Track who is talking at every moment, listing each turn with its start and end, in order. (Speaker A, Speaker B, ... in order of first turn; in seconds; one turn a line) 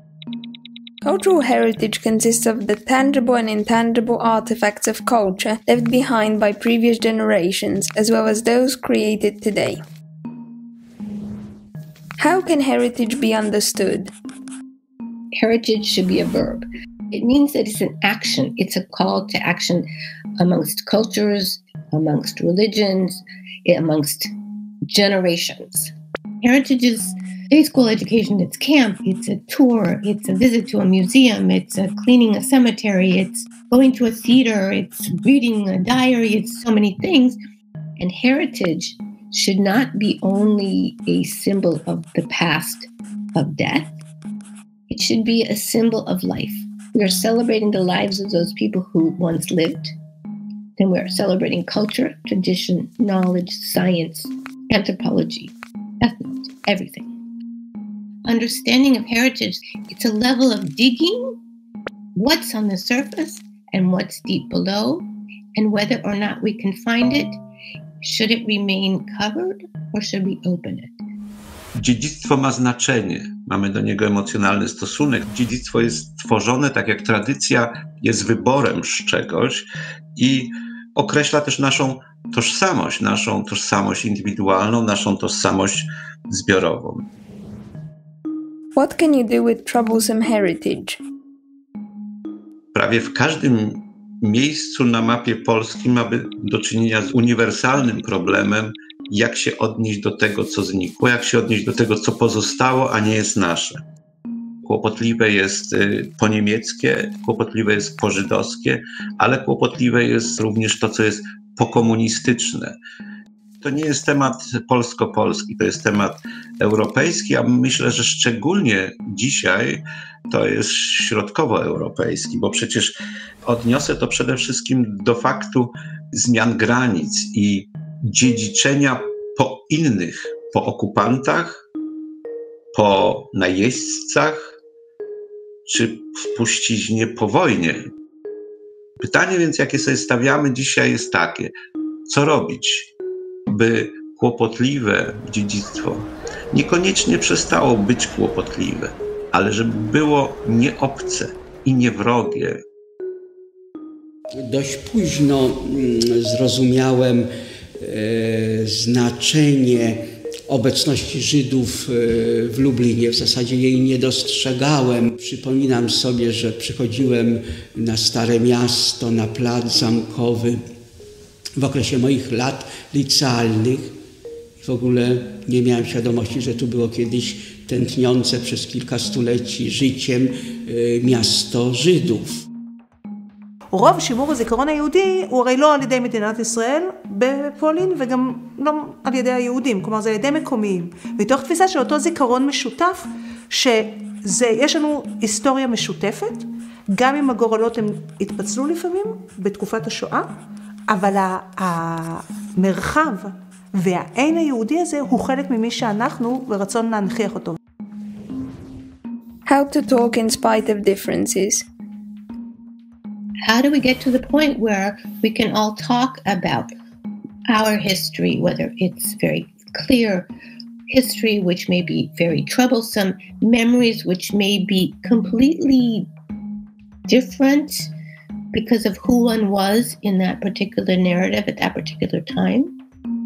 Speaker A: 1.0-9.8
Speaker A: 12.2-14.1
Speaker B: 15.3-19.9
Speaker B: 20.4-24.3
Speaker B: 24.9-37.4
Speaker B: 38.0-43.9
Speaker B: 44.9-49.9
Speaker B: 50.8-57.1
Speaker B: 58.2-61.3
Speaker B: 62.1-67.4
Speaker B: 68.0-70.9
Speaker C: 71.7-87.0
Speaker A: 88.7-91.0
Speaker C: 92.7-103.8
Speaker C: 104.6-112.7
Speaker C: 113.6-131.6
Speaker C: 132.7-134.5
Speaker C: 135.7-137.8
Speaker C: 139.0-141.5
Speaker C: 142.1-142.9
Speaker C: 143.5-152.6
Speaker D: 154.4-157.2
Speaker D: 157.8-170.6
Speaker D: 171.6-173.9
Speaker D: 174.6-182.4
Speaker E: 183.7-200.3
Speaker E: 200.9-207.6
Speaker A: 209.4-211.7
Speaker B: 213.4-216.7
Speaker B: 217.5-220.3
Speaker B: 220.9-226.1
Speaker B: 227.1-227.9
Speaker B: 228.5-232.7